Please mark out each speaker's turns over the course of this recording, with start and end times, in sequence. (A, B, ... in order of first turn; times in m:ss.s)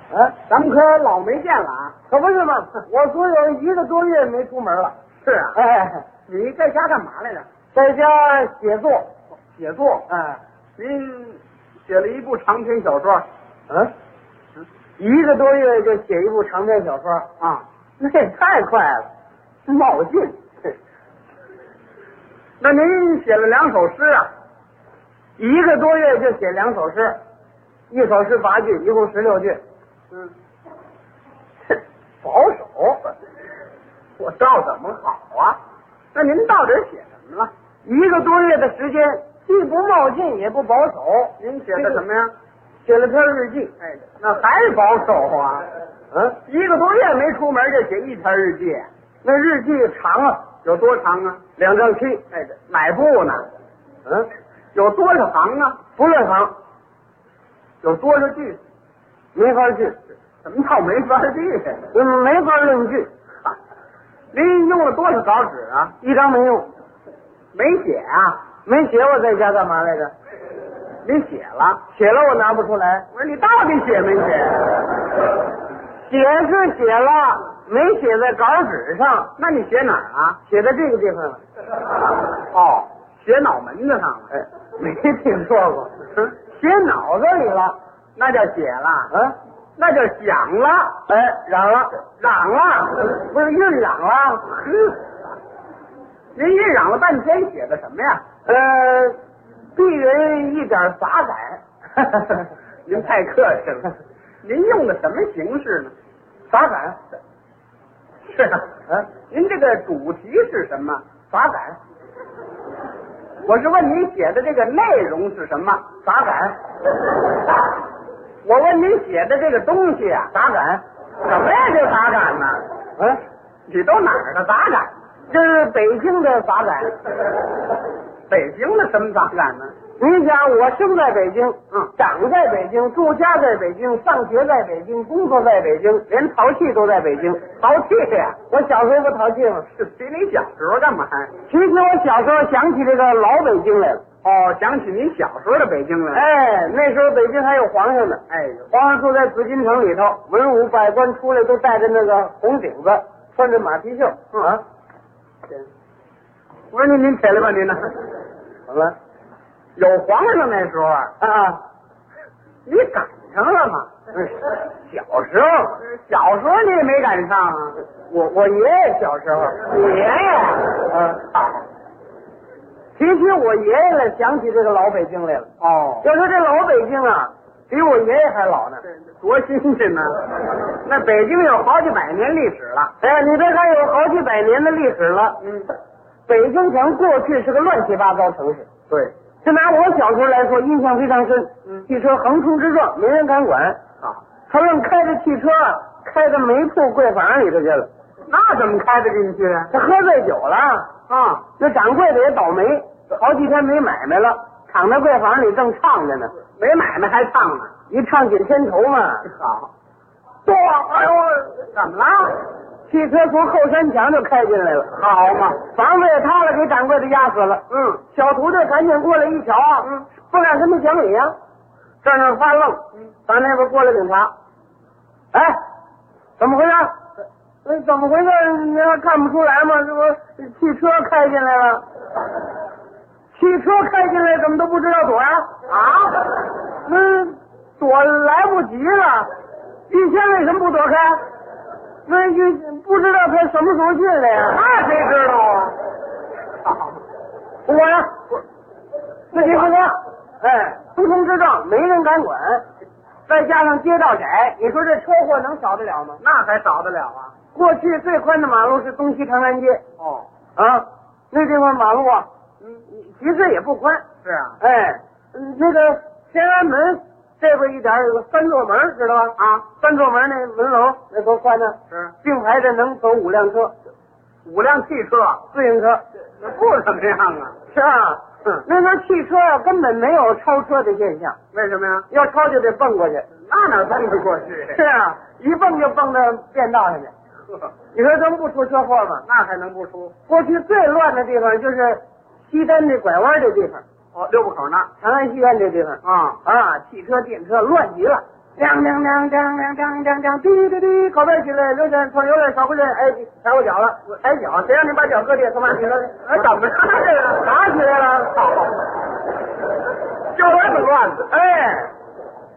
0:00.4-0:01.9 A
0:02.1-0:04.9 B
0:05.2-0:05.6 A
0:05.5-0:06.0 B
0:06.3-0:07.4 A
0:07.7-0:09.1 B
0:09.6-0:10.1 A
0:10.1-0:10.4 B
0:10.8-0:13.2 A
0:15.0-0:17.3 B
0:17.4-0:17.6 A
0:18.0-0:19.1 B
0:19.6-0:20.7 B
0:22.6-0:24.3 A
0:25.4-0:27.2 B
0:27.9-0:29.6 B
0:32.2-0:33.1 B
0:34.2-0:35.6 A
0:36.1-0:37.5 A
0:37.8-0:42.0 B
0:41.4-0:42.3 A
0:42.8-0:43.7 B
0:43.8-0:45.6 A
0:46.1-0:46.4 B
0:46.4-0:48.9 A
0:49.2-0:50.5 B
0:50.6-0:51.4 A
0:51.6-0:52.2 B
0:52.3-0:53.5 A
0:54.7-0:55.8 A
0:56.0-0:56.5 B
0:57.8-0:58.6 A
0:59.3-1:00.0 B
1:00.4-1:01.8 A
1:01.9-1:03.1 B
1:04.3-1:05.9 A
1:06.0-1:06.7 B
1:07.5-1:08.4 A
1:08.6-1:10.1 B
1:11.0-1:11.8 A
1:11.9-1:13.1 B
1:13.1-1:14.8 A
1:16.0-1:19.3 B
1:19.4-1:20.4 A
1:20.5-1:21.4 B
1:22.5-1:24.3 A
1:24.3-1:25.9 B
1:26.4-1:27.8 B
1:28.2-1:29.1 A
1:29.1-1:29.4 B
1:29.8-1:31.0 A
1:31.1-1:31.9 B
1:32.2-1:33.1 A
1:33.1-1:34.5 B
1:34.5-1:35.0 A
1:36.3-1:38.2 A
1:38.4-1:39.2 B
1:39.7-1:42.4 B
1:42.9-1:45.9 A
1:46.5-1:47.0 B
1:48.3-1:48.7 A
1:49.3-1:51.0 A
1:51.3-1:51.8 B
1:53.4-1:55.8 A
1:56.0-1:56.6 B
1:58.4-2:00.3 A
2:00.3-2:00.8 B
2:01.2-2:02.6 A
2:03.0-2:03.2 B
2:03.7-2:04.9 A
2:05.3-2:07.0 B
2:08.3-2:09.7 A
2:10.0-2:17.4 B
2:17.5-2:18.4 A
2:18.5-2:19.7 B
2:19.8-2:21.3 A
2:21.5-2:24.0 B
2:24.2-2:26.3 A
2:26.1-2:34.6 B
2:28.3-2:28.7 A
2:36.7-2:38.0 A
2:38.7-2:39.0 B
2:39.8-2:41.1 A
2:41.2-2:41.6 B
2:42.6-2:43.9 A
2:44.1-2:45.8 B
2:45.8-2:47.8 A
2:48.1-2:49.6 B
2:49.6-2:51.6 A
2:50.9-2:51.2 B
2:53.0-2:55.5 B
2:55.6-2:56.1 A
2:56.0-2:58.8 B
2:58.8-3:02.9 A
3:03.0-3:05.4 B
3:05.4-3:05.7 A
3:06.3-3:08.7 B
3:09.4-3:13.8 B
3:14.5-3:17.9 B
3:18.2-3:19.7 A
3:19.7-3:20.9 B
3:21.1-3:21.4 A
3:21.6-3:26.3 B
3:26.5-3:27.7 A
3:27.9-3:29.3 B
3:29.2-3:29.7 A
3:30.4-3:31.6 B
3:31.7-3:32.4 A
3:32.9-3:34.9 B
3:34.9-3:35.6 A
3:35.6-3:41.4 B
3:37.7-3:38.0 A
3:42.0-3:44.3 B
3:45.3-3:45.6 B
3:46.4-3:46.9 B
3:47.6-3:51.8 B
3:53.3-3:55.7 B
3:55.7-3:56.2 A
3:56.7-3:59.3 B
3:59.9-4:01.2 B
4:02.0-4:04.6 B
4:04.5-4:05.8 A
4:06.6-4:07.0 A
4:07.6-4:08.1 B
4:09.3-4:09.7 A
4:09.3-4:12.6 B
4:13.3-4:16.2 B
4:16.2-4:17.3 A
4:17.5-4:19.8 B
4:20.0-4:20.3 A
4:20.6-4:22.3 B
4:22.8-4:24.0 B
4:24.2-4:24.6 A
4:24.6-4:33.7 B
4:29.4-4:29.6 A
4:34.4-4:35.4 A
4:35.5-4:36.0 B
4:36.4-4:37.6 A
4:37.7-4:41.4 B
4:41.5-4:42.1 A
4:42.1-4:43.3 B
4:43.4-4:44.8 A
4:44.7-4:47.1 B
4:47.9-4:49.2 B
4:49.2-4:50.1 A
4:50.3-4:53.8 B
4:54.1-4:54.9 A
4:55.0-5:06.4 B
4:56.0-4:56.4 A
5:06.3-5:07.4 A
5:07.3-5:08.4 B
5:08.3-5:08.8 A
5:10.3-5:11.3 A
5:11.3-5:11.9 B